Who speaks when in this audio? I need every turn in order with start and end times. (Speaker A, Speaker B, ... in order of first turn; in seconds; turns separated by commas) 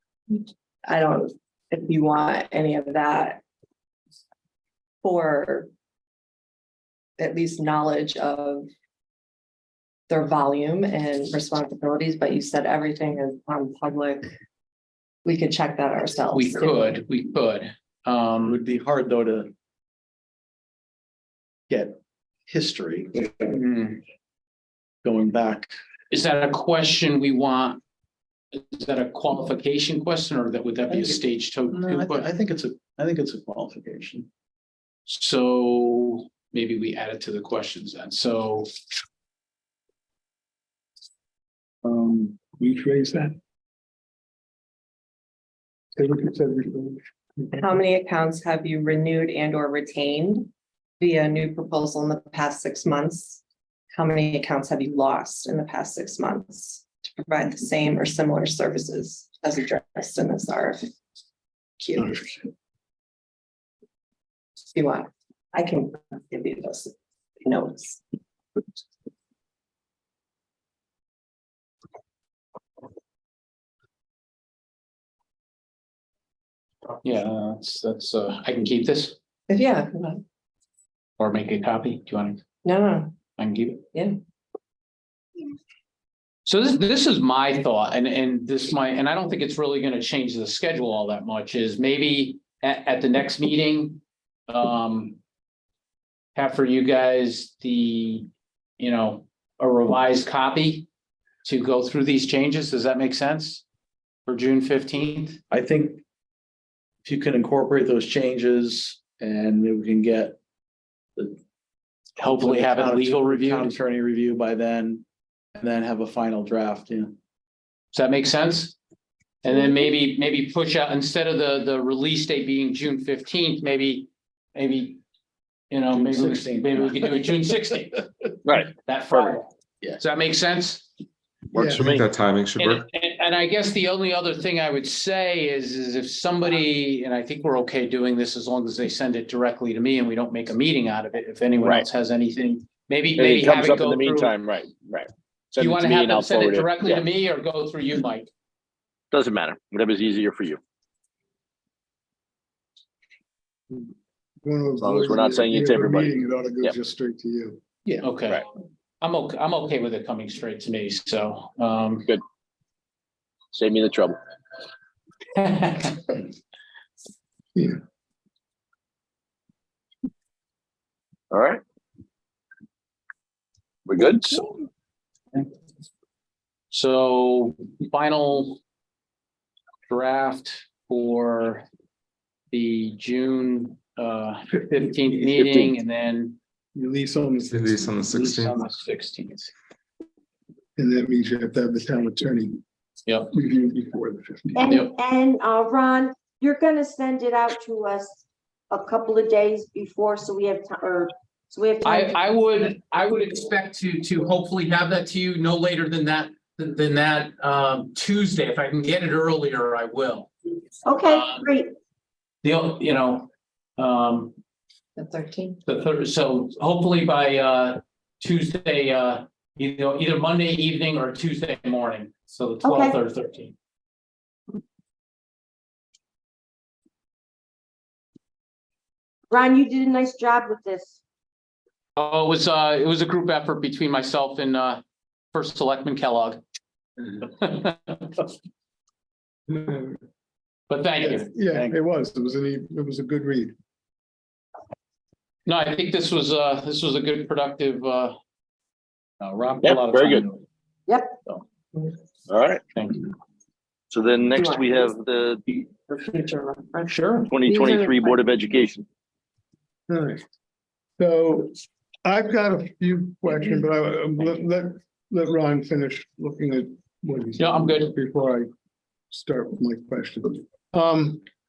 Speaker A: 0.3-3.4, Speaker A: 5.0-5.7, Speaker A: 7.2-8.7, Speaker A: 10.1-14.3, Speaker A: 15.2-16.9, Speaker B: 16.3-18.6, Speaker C: 18.5-19.5, Speaker C: 21.7-23.5, Speaker B: 23.5-24.0, Speaker C: 25.0-25.7, Speaker B: 26.1-27.8, Speaker B: 28.5-32.3, Speaker C: 30.9-31.2, Speaker C: 31.7-34.3, Speaker B: 35.1-38.7, Speaker D: 41.8-43.4, Speaker D: 46.0-47.6, Speaker A: 47.5-53.4, Speaker A: 53.9-60.9, Speaker A: 61.8-62.4, Speaker A: 64.7-68.0, Speaker B: 77.0-79.2, Speaker A: 79.5-80.2, Speaker B: 81.2-82.4, Speaker A: 82.7-83.1, Speaker B: 83.4-83.8, Speaker B: 86.5-95.2, Speaker B: 96.3-98.3, Speaker B: 98.8-100.9, Speaker B: 101.4-103.6, Speaker B: 104.3-105.4, Speaker C: 105.5-106.0, Speaker C: 107.0-110.4, Speaker B: 112.2-113.8, Speaker C: 112.2-115.0, Speaker C: 115.5-117.2, Speaker B: 117.9-118.8, Speaker B: 119.4-125.0, Speaker B: 125.7-128.0, Speaker C: 125.9-127.5, Speaker E: 128.4-129.3, Speaker B: 128.8-130.9, Speaker D: 131.6-131.8, Speaker E: 131.7-132.0, Speaker F: 131.7-132.9, Speaker B: 132.6-144.3, Speaker G: 143.2-147.1, Speaker B: 145.6-148.3, Speaker G: 149.1-150.6, Speaker D: 154.4-157.6, Speaker G: 154.8-156.1, Speaker B: 158.0-158.4, Speaker B: 159.0-162.1, Speaker G: 163.5-164.2, Speaker B: 165.3-166.2, Speaker G: 171.3-171.6, Speaker G: 173.9-174.4, Speaker B: 176.7-178.6, Speaker B: 179.9-181.7, Speaker B: 182.5-186.4, Speaker D: 186.8-188.1, Speaker F: 187.4-188.6, Speaker C: 188.1-188.6, Speaker B: 188.5-189.5, Speaker D: 190.8-192.6, Speaker D: 193.3-194.8, Speaker E: 194.6-202.3, Speaker B: 201.8-210.3, Speaker E: 210.8-211.7, Speaker B: 211.0-211.4, Speaker B: 212.4-214.3, Speaker A: 215.0-215.6, Speaker B: 215.7-223.5, Speaker E: 222.6-223.0, Speaker E: 229.3-231.0, Speaker B: 232.0-234.8, Speaker B: 235.3-236.4, Speaker B: 237.0-238.2, Speaker D: 239.5-240.0, Speaker B: 240.7-241.4, Speaker D: 241.0-243.5, Speaker B: 245.5-248.2, Speaker B: 249.2-250.4, Speaker G: 249.6-250.3, Speaker E: 250.9-251.2, Speaker G: 252.3-252.6, Speaker B: 252.8-253.1, Speaker G: 253.9-255.7, Speaker A: 254.3-254.9, Speaker A: 255.8-257.0, Speaker B: 256.9-257.3, Speaker G: 257.3-258.9, Speaker E: 257.4-258.2, Speaker D: 259.9-260.2, Speaker D: 261.0-268.5, Speaker B: 267.4-267.9, Speaker D: 269.1-271.2